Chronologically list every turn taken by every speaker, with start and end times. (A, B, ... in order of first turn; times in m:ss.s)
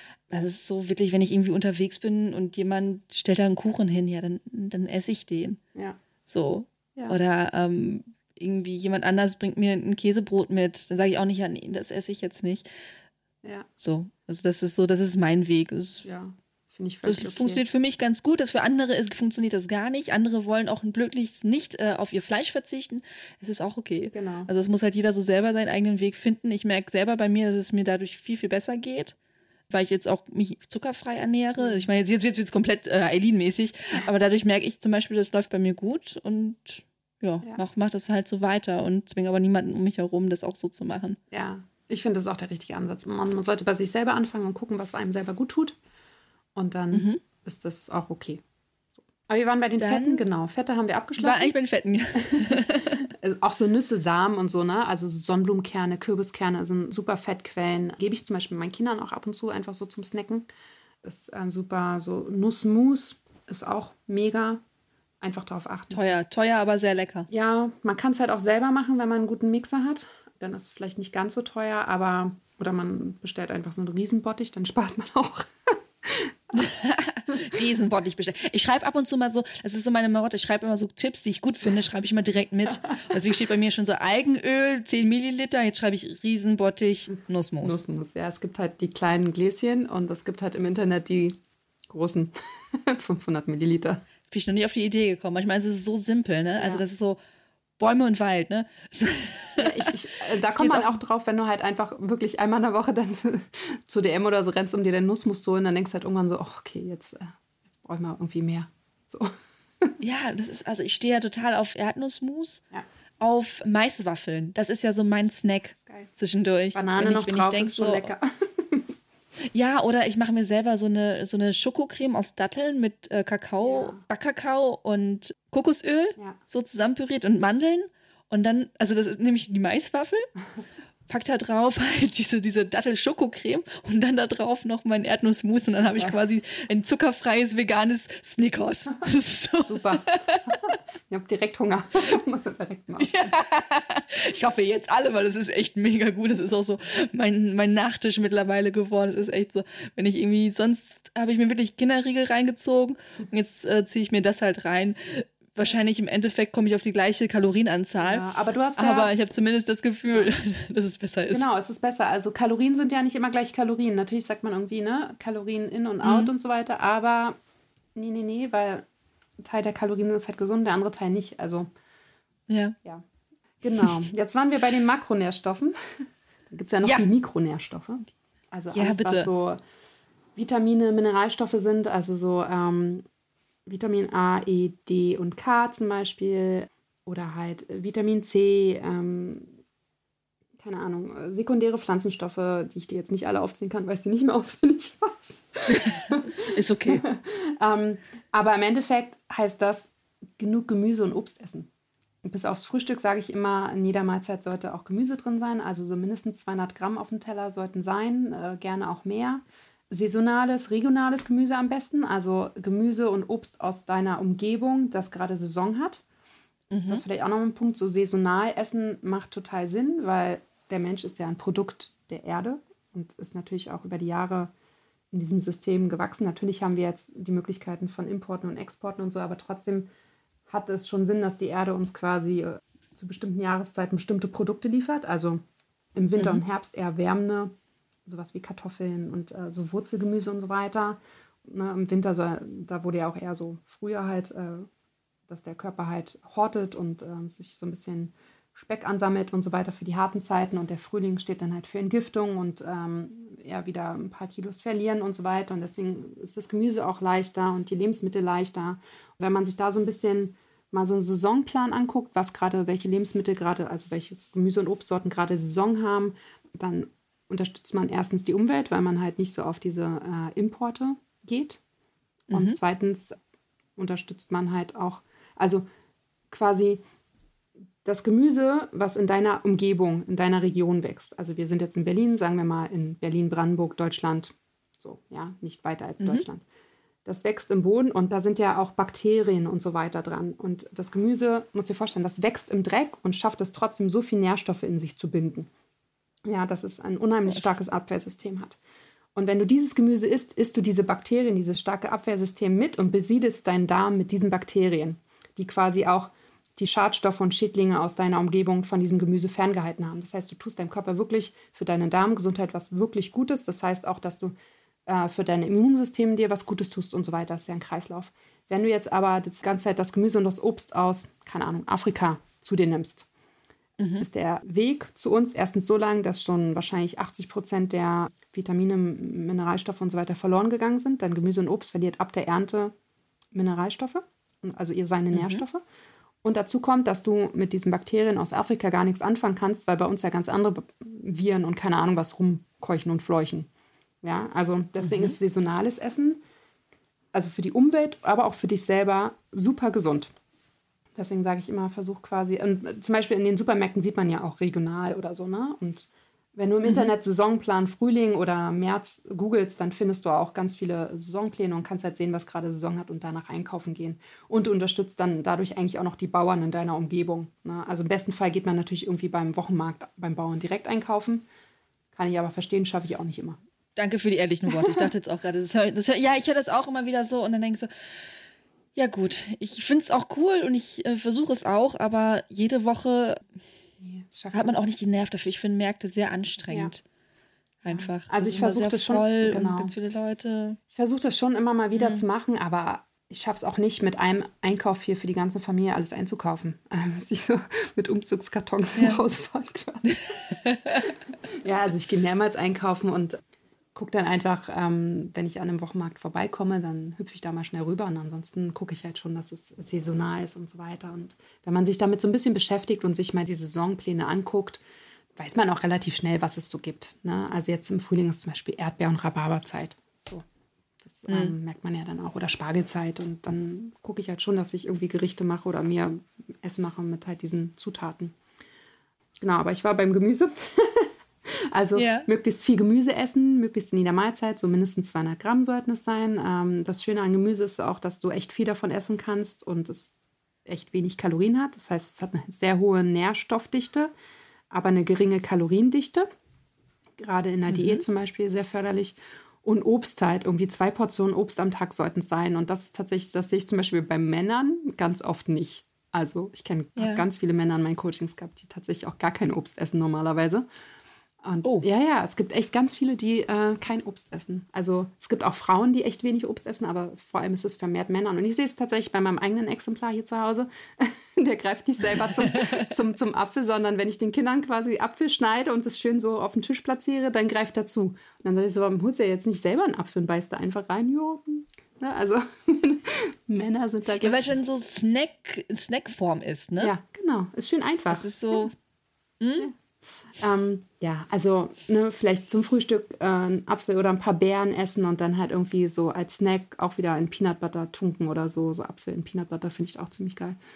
0:00.3-0:05.6 A
0:06.3-0:12.7 A
0:13.8-0:16.0 A
0:16.0-0:17.6 B
0:17.0-0:29.1 A
0:24.1-0:24.5 B
0:29.7-0:41.2 A
0:31.6-0:31.8 B
0:41.3-0:45.8 B
0:46.6-0:48.4 B
0:46.9-0:47.2 A
0:49.3-0:51.5 B
0:49.8-0:50.2 A
0:51.2-0:53.1 A
0:52.2-1:00.4 B
1:01.0-1:04.6 B
1:05.2-1:06.2 B
1:05.9-1:07.3 A
1:07.3-1:15.5 B
1:16.0-1:16.6 B
1:16.5-1:27.8 A
1:27.6-1:31.4 B
1:31.9-1:34.0 B
1:34.3-1:37.2 A
1:37.8-1:39.9 A
1:39.6-1:49.3 B
1:40.6-1:40.9 A
1:50.0-1:52.6 A
1:53.2-1:58.1 A
1:55.8-1:56.1 B
1:56.7-1:58.9 B
1:59.5-2:10.3 A
2:03.6-2:04.0 B
2:11.1-2:20.6 A
2:19.7-2:23.4 B
2:23.0-2:38.2 A
2:38.0-2:39.1 B
2:38.8-2:41.4 A
2:41.3-2:47.4 B
2:46.0-2:46.3 A
2:48.0-2:48.8 B
2:49.4-2:51.7 B
2:52.5-2:52.8 A
2:53.6-2:59.6 B
2:58.7-2:59.3 A
3:00.4-3:03.0 B
3:03.6-3:09.5 B
3:10.6-3:21.7 B
3:15.7-3:17.0 A
3:22.2-3:36.0 B
3:36.7-3:37.0 A
3:36.9-3:44.5 B
3:45.1-3:49.9 B
3:50.5-3:55.4 B
3:56.0-3:57.5 B
3:58.0-4:04.7 B
4:05.3-4:31.6 B
4:32.3-4:33.2 B
4:32.3-4:32.6 A
4:33.8-4:35.6 B
4:36.3-4:36.8 B
4:37.8-4:46.4 B
4:46.0-4:46.2 A
4:47.0-4:55.5 B
4:56.2-4:58.6 B
4:59.1-5:14.3 B
5:14.9-5:23.1 B
5:23.8-5:24.0 A
5:24.0-5:32.7 B
5:33.3-5:35.6 B
5:35.1-5:35.4 A
5:36.2-5:43.5 B
5:44.0-5:46.2 B
5:44.8-5:45.1 A
5:47.1-5:50.1 B
5:51.0-6:11.2 B
5:56.6-5:56.9 A
6:11.9-6:13.4 B
6:13.8-6:17.7 A
6:14.5-6:14.8 B
6:18.8-6:23.2 A
6:23.8-6:24.5 B
6:24.3-6:26.8 A
6:26.5-6:26.7 B
6:27.6-6:30.6 A
6:27.6-6:29.7 B
6:30.7-6:40.1 B
6:31.7-6:32.0 A
6:39.9-6:40.9 A
6:40.8-6:43.2 B
6:43.7-6:54.6 B
6:55.2-7:00.2 B
7:00.8-7:08.2 B
7:01.1-7:01.3 A
7:09.2-7:19.9 B
7:11.7-7:12.1 A
7:20.4-7:23.9 B
7:24.5-7:26.1 B
7:27.0-7:40.4 B
7:27.5-7:27.8 A
7:36.8-7:37.0 A
7:41.2-8:04.3 B
8:04.0-8:06.7 A
8:06.6-8:08.5 B
8:07.9-8:08.5 A
8:09.2-8:09.5 A
8:10.1-8:20.4 B